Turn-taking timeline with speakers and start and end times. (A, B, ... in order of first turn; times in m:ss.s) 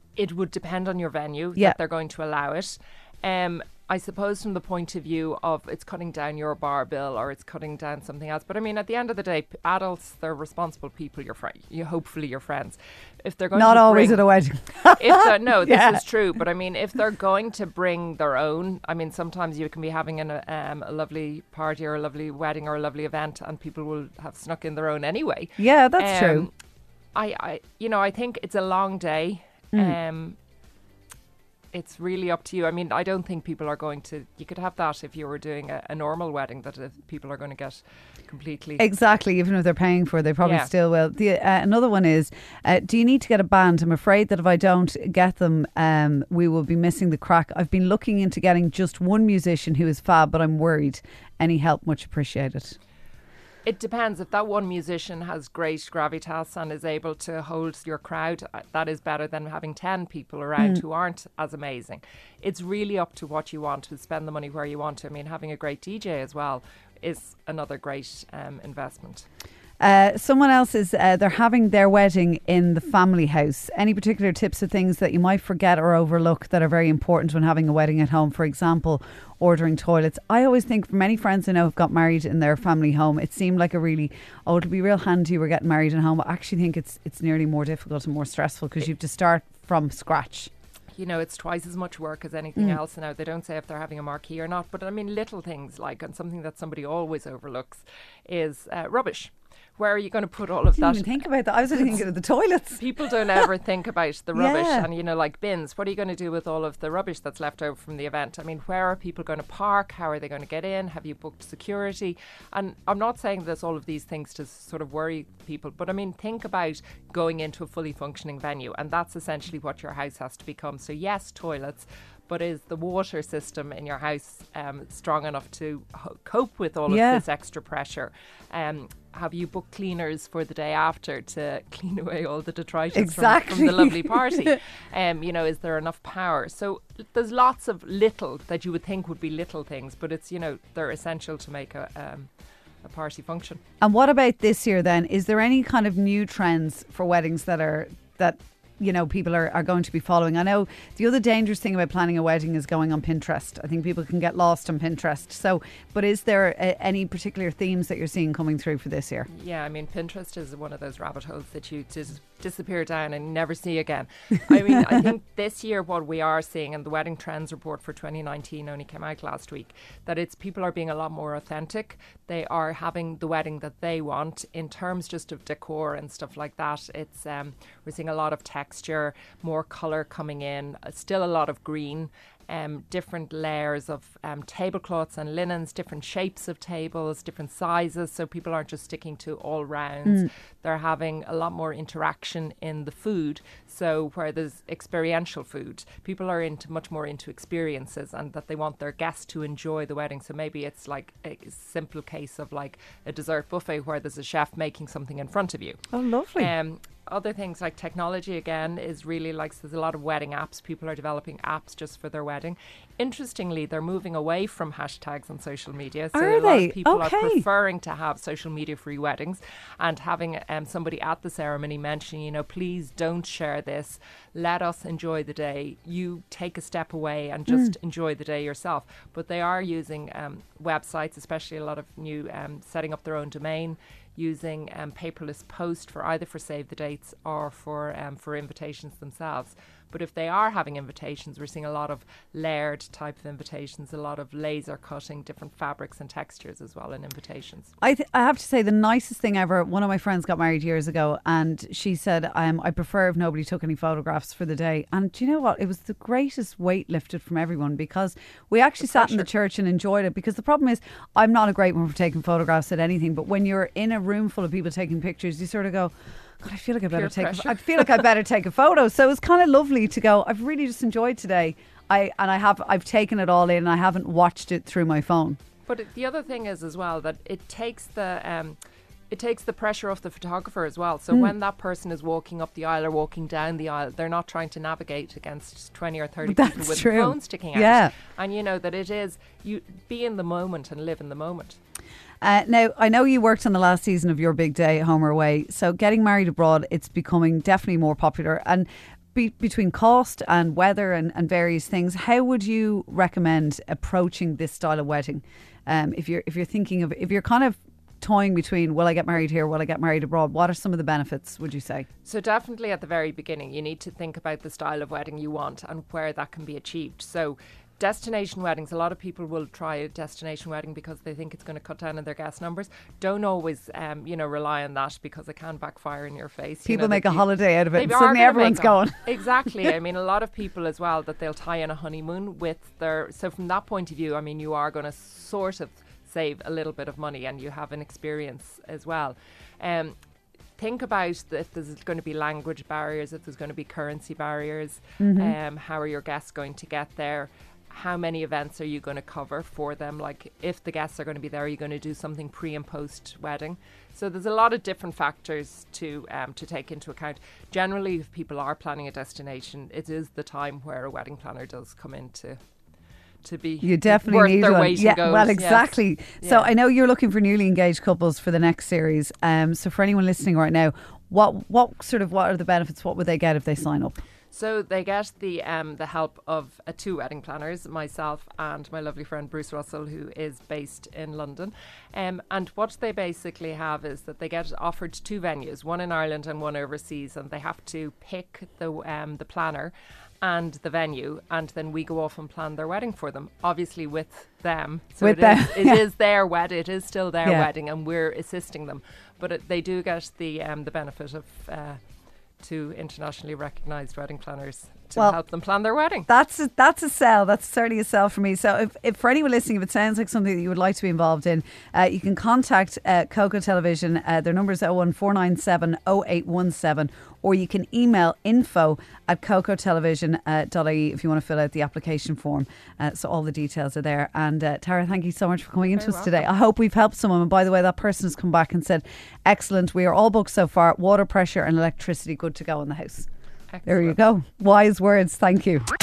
0:00.2-0:14.2 A
0:13.5-0:16.0 B
0:14.9-0:26.5 A
0:25.6-0:26.5 B
0:27.1-0:30.4 A
0:31.7-0:38.8 A
0:38.8-0:52.8 B
0:40.4-0:40.7 A
0:53.6-1:09.3 A
1:09.8-1:30.5 B
1:30.9-1:42.0 A
1:40.8-1:43.4 B
1:42.7-2:22.3 A
1:44.3-1:44.9 B
2:06.9-2:07.2 B
2:12.9-2:14.6 B
2:22.8-2:23.6 A
2:23.8-2:39.3 B
2:39.3-4:07.7 A
3:25.9-3:26.5 B
3:36.1-3:37.4 B
4:07.8-4:35.4 B
4:18.8-4:19.3 A
4:26.9-4:28.0 A
4:35.6-4:38.6 A
4:39.1-4:51.6 A
4:46.2-4:47.9 B
4:52.2-5:11.9 B
5:12.0-5:40.0 A
5:26.6-5:29.1 B
5:40.6-6:02.4 A
5:45.0-5:45.3 B
6:03.2-6:06.5 A
6:03.6-6:14.0 B
6:14.3-6:41.8 A
6:35.0-6:35.8 B
6:42.4-6:46.1 A
6:46.1-7:13.1 B
7:05.6-7:06.2 A
7:13.5-7:14.0 A
7:13.6-7:15.7 B